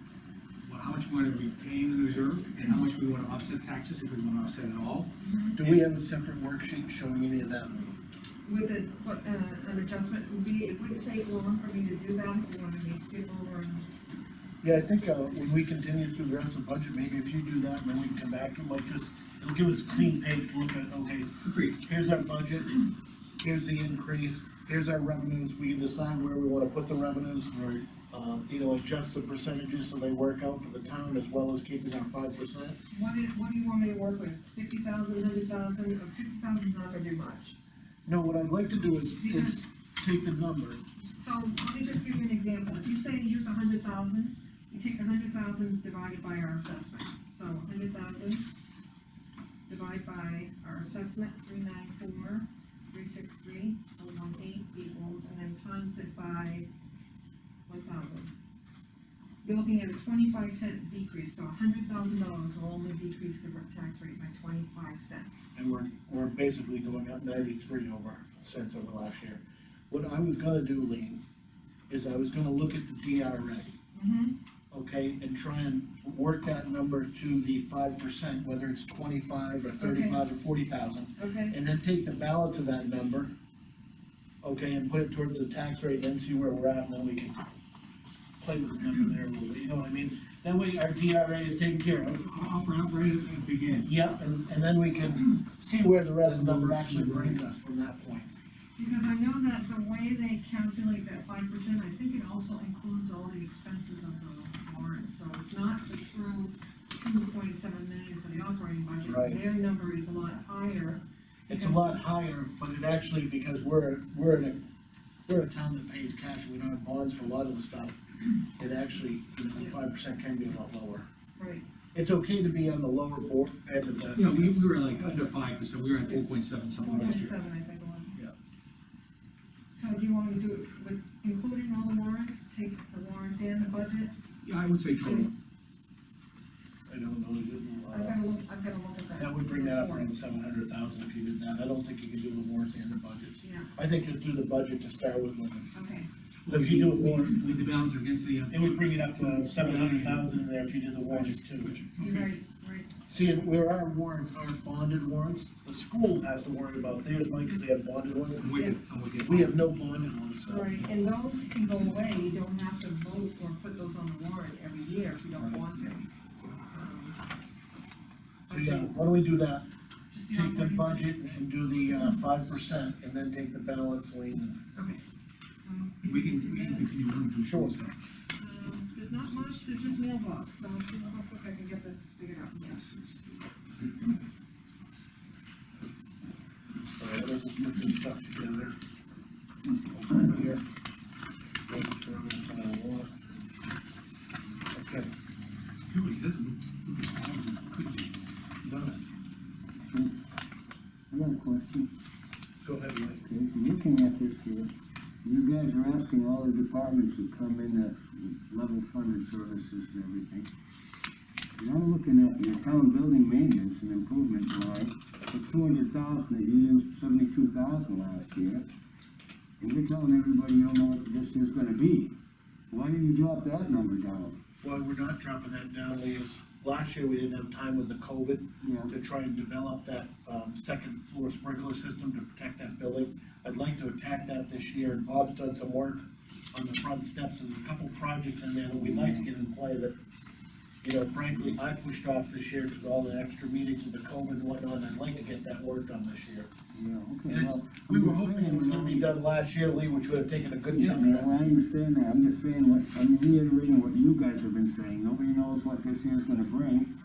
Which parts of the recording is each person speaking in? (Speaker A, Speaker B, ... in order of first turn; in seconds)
Speaker A: 0.7-5.8, 21.4-21.8, 92.2-93.9, 96.2-97.4, 124.2-127.3, 134.4-135.3, 146.4-150.4, 151.1-152.3, 158.4-159.6, 176.0-177.9, 182.9-183.2, 195.9-198.1
Speaker B: 5.2-5.6, 8.4-13.9, 32.9-37.5, 39.2-39.6, 41.2-48.5, 49.7-56.7, 57.7-58.3, 59.4-65.5, 73.9-74.3, 79.8-80.2, 81.2-81.6, 98.8-112.0, 121.4-121.6, 126.8-128.2, 129.7-134.2, 135.0-135.3, 137.9-140.1, 143.4-143.7, 145.7-146.1, 152.0-152.9, 160.5-167.2, 168.5-169.0, 170.1-171.1, 174.8-175.0, 175.7-176.9, 178.4-183.0
Speaker C: 5.5-8.0, 14.6-22.8, 23.4-32.8, 38.1-40.8, 65.5-71.2, 71.9-73.8, 74.7-83.3, 84.4-87.4, 88.4-92.2, 93.8-98.3, 109.0-109.4, 111.5-114.6, 115.3-121.1, 121.9-124.8, 136.9-138.2, 139.2-145.7, 146.5-147.5, 148.5-151.8, 153.1-158.6, 159.2-160.8, 168.5-169.7, 170.3-174.6, 177.4-177.8, 187.0-188.7, 189.9-190.6, 191.7-193.1, 194.7-195.1, 198.6-199.0, 202.6-203.2, 224.6-239.9, 240.8-246.5, 247.3-251.3
Speaker D: 199.9-200.2, 201.1-201.9, 203.2-204.7, 205.2-210.5, 211.6-218.7, 219.6-222.2, 222.7-224.4, 228.6-228.9, 238.7-239.3, 246.7-249.1, 250.7-256.9